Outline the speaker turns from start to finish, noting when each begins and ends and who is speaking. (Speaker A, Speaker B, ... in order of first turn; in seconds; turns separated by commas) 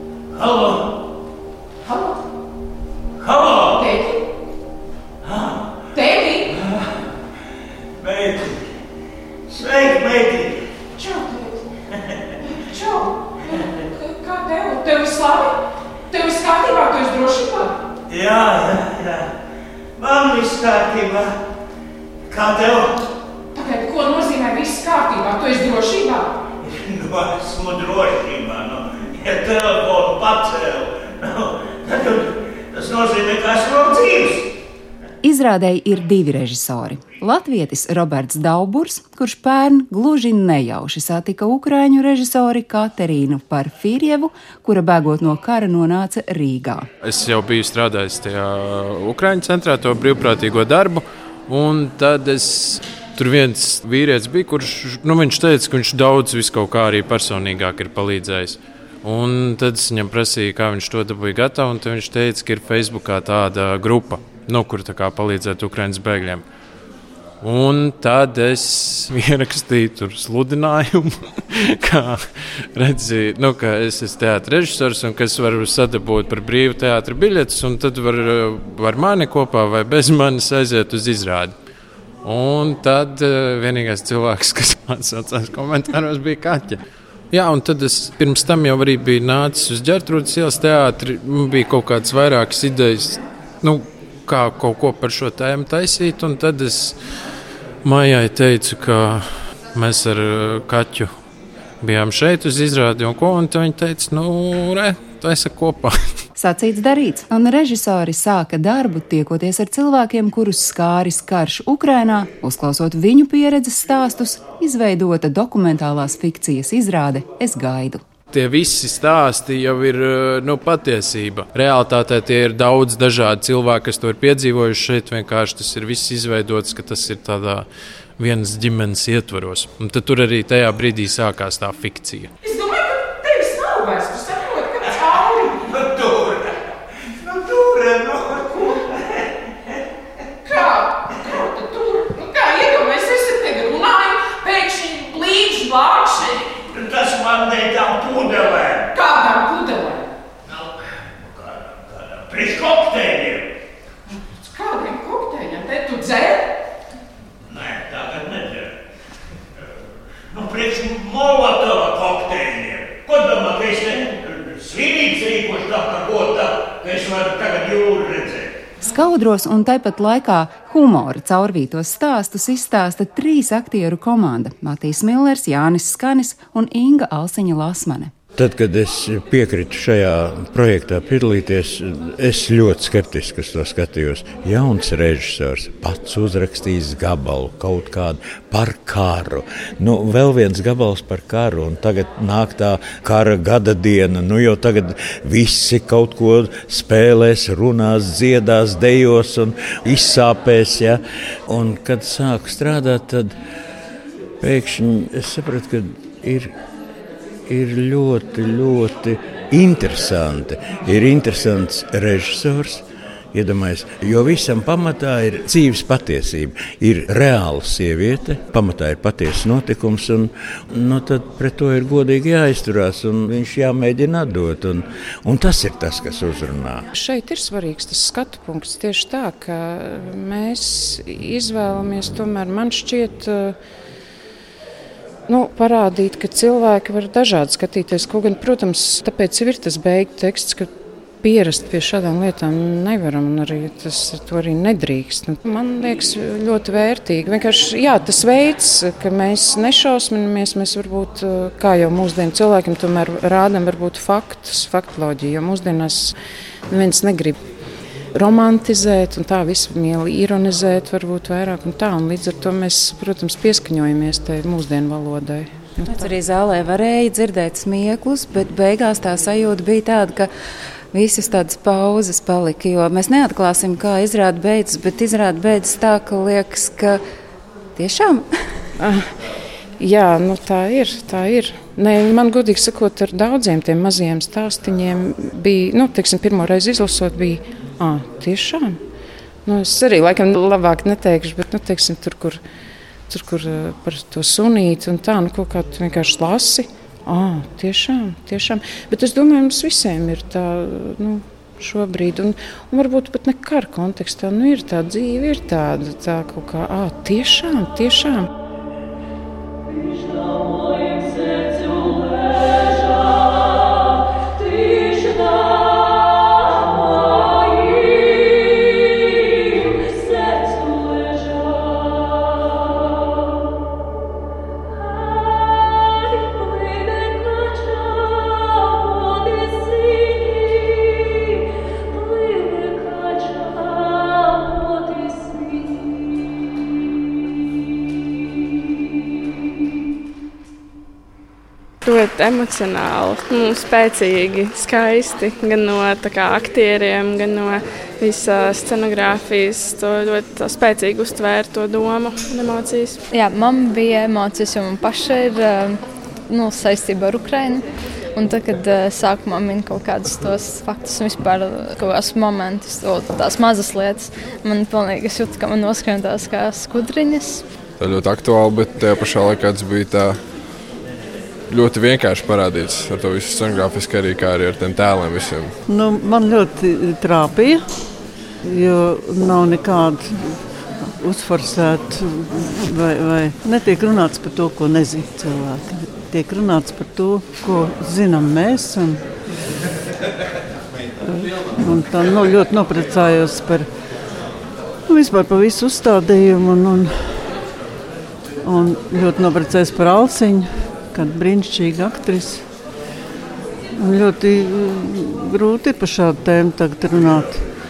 Speaker A: 0.3-0.8, Speaker A: 3.2-3.9, Speaker B: 3.8-4.2, Speaker A: 5.2-5.6, Speaker B: 6.0-6.4, Speaker A: 6.5-6.8, Speaker A: 8.0-8.7, Speaker A: 9.5-10.6, Speaker B: 11.0-11.6, Speaker B: 12.7-13.2, Speaker B: 13.9-15.6, Speaker B: 16.1-17.8, Speaker A: 18.1-19.3, Speaker A: 20.0-21.4, Speaker A: 22.3-22.9, Speaker B: 23.5-26.3, Speaker A: 26.6-34.5, Speaker C: 35.2-46.9, Speaker D: 47.0-66.4, Speaker D: 67.4-81.5, Speaker D: 82.2-86.8, Speaker D: 87.3-97.0, Speaker D: 97.8-101.1, Speaker D: 101.8-106.0, Speaker C: 106.4-118.0, Speaker D: 118.3-127.7, Speaker D: 128.2-132.3, Speaker B: 132.4-135.6, Speaker A: 135.7-136.5, Speaker A: 137.2-138.6, Speaker B: 140.4-146.5, Speaker A: 146.7-148.8, Speaker B: 148.9-150.1, Speaker A: 150.5-153.5, Speaker B: 154.4-156.5, Speaker A: 157.5-158.7, Speaker A: 160.3-168.5, Speaker C: 168.8-178.1, Speaker E: 178.4-203.3, Speaker E: 204.4-206.5, Speaker E: 207.5-226.9, Speaker F: 226.9-233.6, Speaker F: 235.3-256.2, Speaker F: 256.7-257.4, Speaker F: 258.1-265.8, Speaker C: 265.9-270.3, Speaker C: 270.9-277.0, Speaker C: 277.8-278.2, Speaker F: 278.8-279.1, Speaker F: 279.8-288.8, Speaker F: 289.4-292.4, Speaker F: 293.1-308.3, Speaker G: 341.8-353.0, Speaker H: 353.1-367.4, Speaker I: 367.8-370.2, Speaker I: 371.5-375.5, Speaker J: 375.6-377.7, Speaker J: 378.4-389.1, Speaker J: 391.0-393.7, Speaker J: 394.9-397.3, Speaker J: 398.4-402.4, Speaker J: 403.8-407.5